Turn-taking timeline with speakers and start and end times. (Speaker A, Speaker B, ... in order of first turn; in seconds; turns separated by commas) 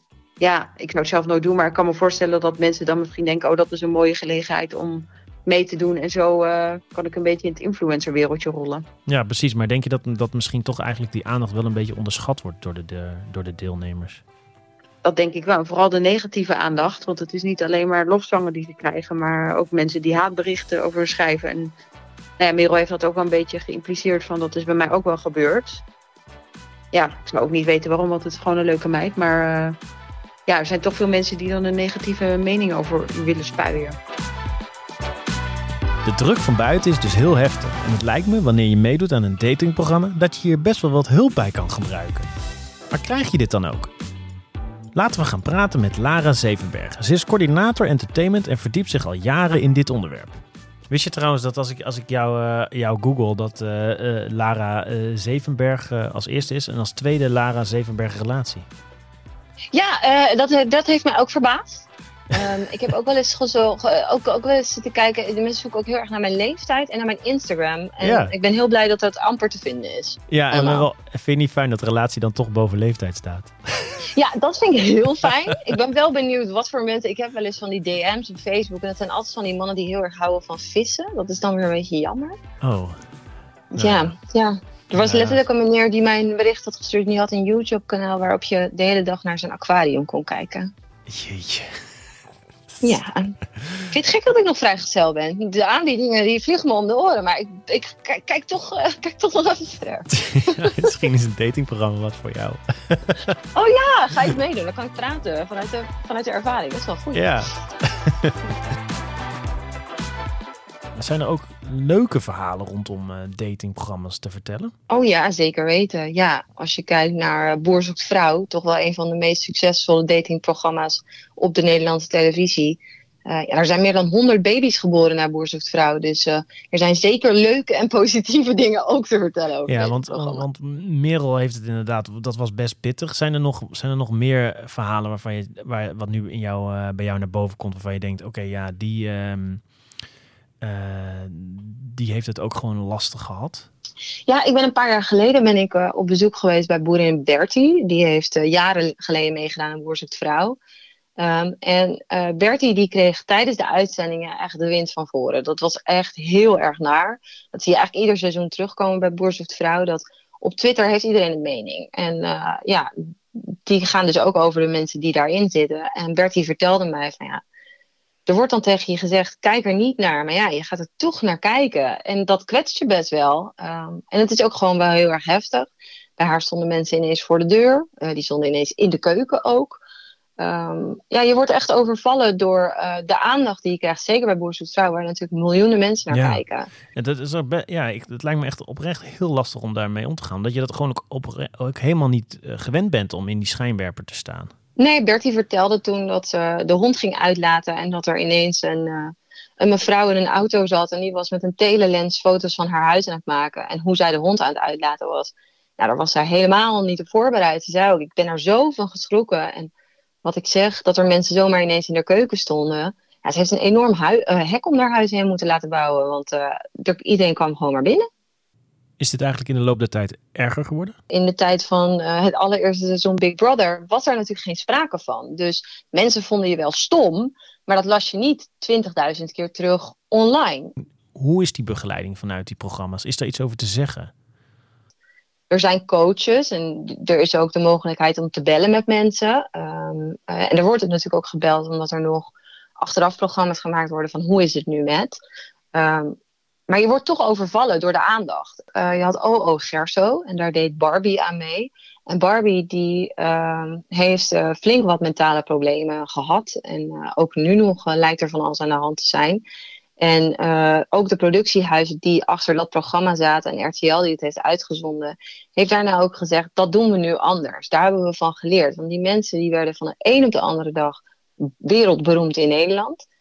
Speaker A: 0.4-8.8, Speaker B: 9.1-14.2, Speaker A: 15.0-21.7, Speaker A: 22.4-25.8, Speaker A: 26.9-29.8, Speaker A: 30.5-34.0, Speaker B: 36.0-42.3, Speaker B: 42.9-43.9, Speaker B: 44.9-58.6, Speaker C: 59.7-70.9, Speaker B: 68.0-68.3, Speaker B: 70.3-74.1, Speaker C: 74.1-82.3, Speaker B: 82.6-83.0, Speaker C: 83.8-90.7, Speaker B: 83.8-84.1, Speaker B: 85.0-85.4, Speaker B: 91.1-91.7, Speaker C: 92.8-93.3, Speaker C: 93.9-100.6, Speaker B: 100.1-103.2, Speaker C: 103.5-107.3, Speaker B: 107.1-108.3, Speaker B: 111.0-114.7, Speaker C: 114.9-130.4, Speaker B: 129.7-139.6, Speaker B: 140.6-143.7, Speaker C: 144.3-150.6, Speaker C: 151.2-167.4, Speaker C: 168.3-179.8, Speaker C: 180.4-186.7, Speaker B: 186.1-186.4, Speaker B: 186.9-194.5, Speaker C: 194.8-209.7, Speaker C: 210.2-218.0, Speaker B: 219.0-220.9, Speaker C: 221.1-230.7, Speaker B: 231.1-234.1, Speaker C: 235.5-245.1, Speaker C: 245.7-246.2, Speaker C: 246.7-259.4, Speaker C: 260.0-273.0